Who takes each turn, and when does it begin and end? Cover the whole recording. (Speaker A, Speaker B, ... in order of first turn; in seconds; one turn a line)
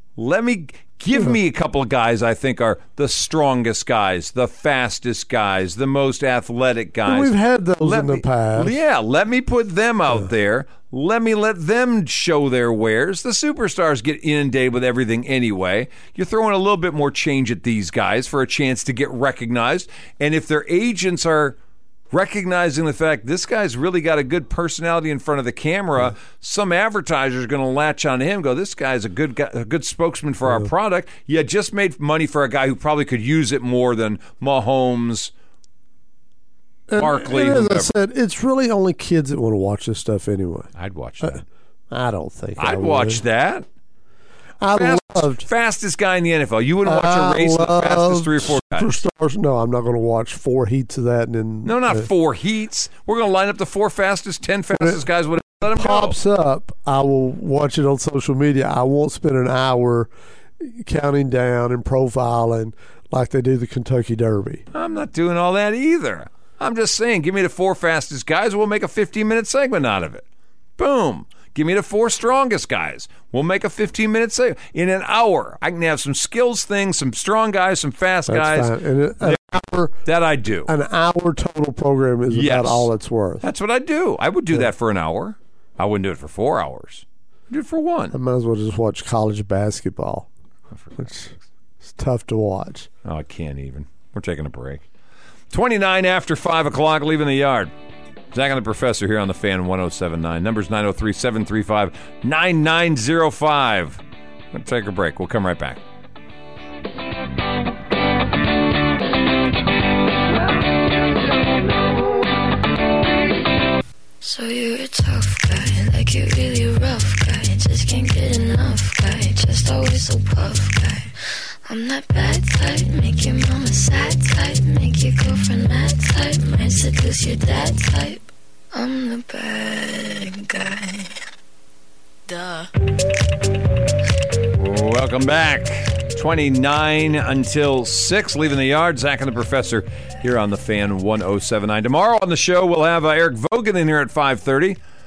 Speaker A: 0.2-21.6
Speaker B: 7.0-8.8
Speaker A: 22.1-35.3
Speaker B: 36.9-40.7
Speaker A: 37.0-38.0
Speaker A: 40.7-41.4
Speaker B: 41.2-43.2
Speaker A: 42.6-43.6
Speaker B: 44.6-45.5
Speaker A: 44.7-48.9
Speaker B: 46.8-52.1
Speaker A: 51.6-56.2
Speaker B: 54.8-55.0
Speaker B: 55.5-64.6
Speaker A: 64.7-70.2
Speaker A: 70.8-79.4
Speaker B: 78.3-80.0
Speaker A: 80.0-80.7
Speaker B: 80.7-83.4
Speaker A: 82.3-82.9
Speaker A: 83.4-88.1
Speaker B: 88.1-90.3
Speaker B: 91.0-91.3
Speaker B: 91.8-92.9
Speaker A: 93.0-94.8
Speaker A: 95.5-97.7
Speaker A: 98.3-105.8
Speaker C: 114.2-131.1
Speaker C: 132.3-132.7
Speaker A: 134.5-144.8